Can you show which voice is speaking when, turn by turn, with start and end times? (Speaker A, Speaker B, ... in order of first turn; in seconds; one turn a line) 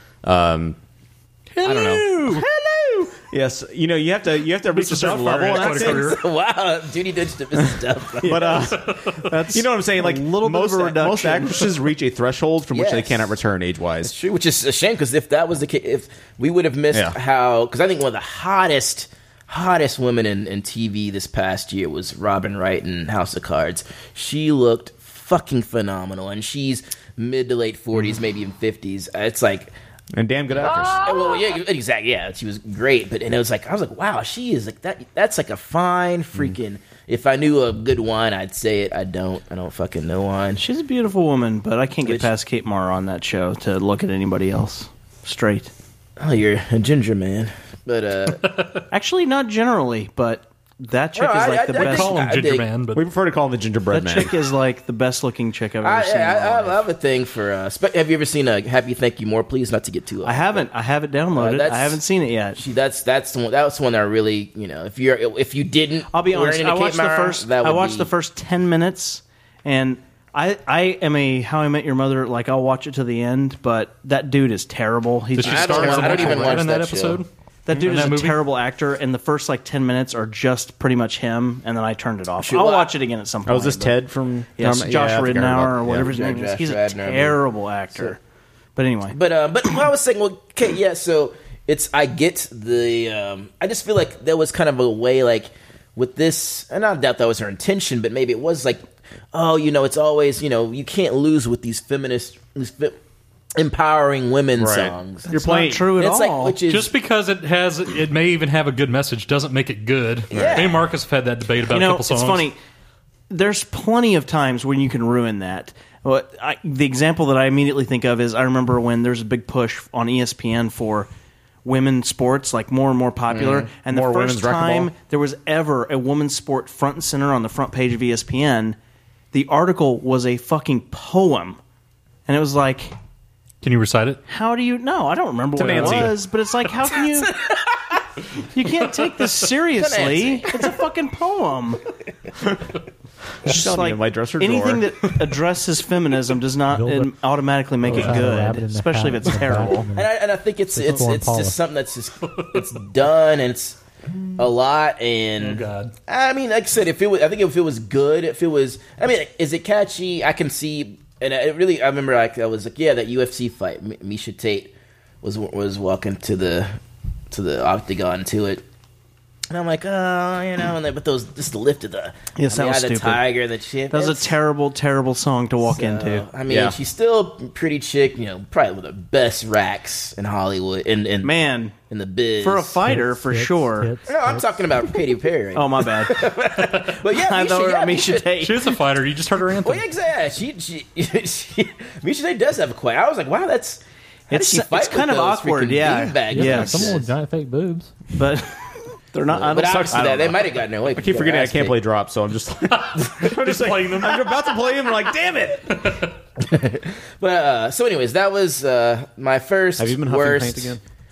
Speaker A: 0.2-0.8
Speaker B: 1.5-2.5
Speaker A: 1.6-6.0
Speaker B: 4.8-6.0
Speaker C: 4.9-6.2
Speaker D: 5.7-8.8
Speaker A: 8.2-8.9
Speaker B: 9.3-11.7
Speaker A: 9.5-14.1
Speaker D: 12.7-13.3
Speaker D: 14.0-29.7
Speaker A: 30.1-31.1
Speaker D: 30.9-40.6
Speaker B: 40.6-45.7
Speaker D: 46.2-48.4
Speaker C: 48.5-48.8
Speaker B: 48.9-52.2
Speaker D: 51.1-52.7
Speaker C: 51.8-53.0
Speaker A: 52.9-54.3
Speaker B: 53.9-56.8
Speaker D: 55.8-60.7
Speaker B: 60.2-62.6
Speaker D: 61.4-62.0
Speaker D: 62.6-68.1
Speaker B: 66.1-76.6
Speaker C: 75.4-77.3
Speaker D: 75.4-77.2
Speaker B: 77.7-84.0
Speaker C: 77.8-78.5
Speaker D: 82.4-82.9
Speaker A: 83.5-86.1
Speaker B: 84.6-88.2
Speaker D: 85.9-87.4
Speaker B: 88.8-89.2
Speaker D: 89.1-103.0
Speaker D: 103.6-105.3
Speaker A: 104.6-105.9
Speaker B: 105.3-106.6
Speaker D: 106.0-106.9
Speaker C: 106.7-112.5
Speaker A: 110.3-110.7
Speaker D: 110.3-110.8
Speaker B: 111.7-112.6
Speaker B: 113.3-121.1
Speaker B: 121.7-128.8
Speaker D: 123.3-123.7
Speaker A: 123.9-124.9
Speaker B: 129.3-131.6
Speaker B: 132.3-132.9
Speaker C: 133.6-134.2
Speaker B: 134.3-137.3
Speaker A: 135.6-136.1
Speaker D: 137.0-138.0
Speaker B: 138.5-141.8
Speaker D: 139.8-140.5
Speaker A: 143.4-144.9
Speaker B: 143.5-149.9
Speaker E: 146.7-147.2
Speaker E: 147.8-150.1
Speaker C: 147.9-148.2
Speaker D: 149.9-153.8
Speaker E: 150.8-151.6
Speaker D: 154.4-166.8
Speaker C: 155.4-155.9
Speaker D: 167.3-168.6
Speaker D: 169.5-174.3
Speaker B: 172.4-173.2
Speaker B: 173.9-176.3
Speaker D: 175.6-181.3
Speaker A: 176.5-176.8
Speaker B: 181.2-181.7
Speaker D: 181.9-182.8
Speaker B: 182.4-184.0
Speaker E: 182.8-184.4
Speaker D: 184.1-188.3
Speaker B: 185.6-186.2
Speaker B: 187.2-188.6
Speaker C: 188.4-189.9
Speaker D: 189.6-197.1
Speaker B: 194.3-197.0
Speaker E: 196.3-197.9
Speaker B: 198.1-200.3
Speaker D: 199.3-201.8
Speaker A: 200.9-205.8
Speaker C: 202.8-204.4
Speaker C: 205.8-206.1
Speaker D: 206.4-210.8
Speaker A: 209.8-210.8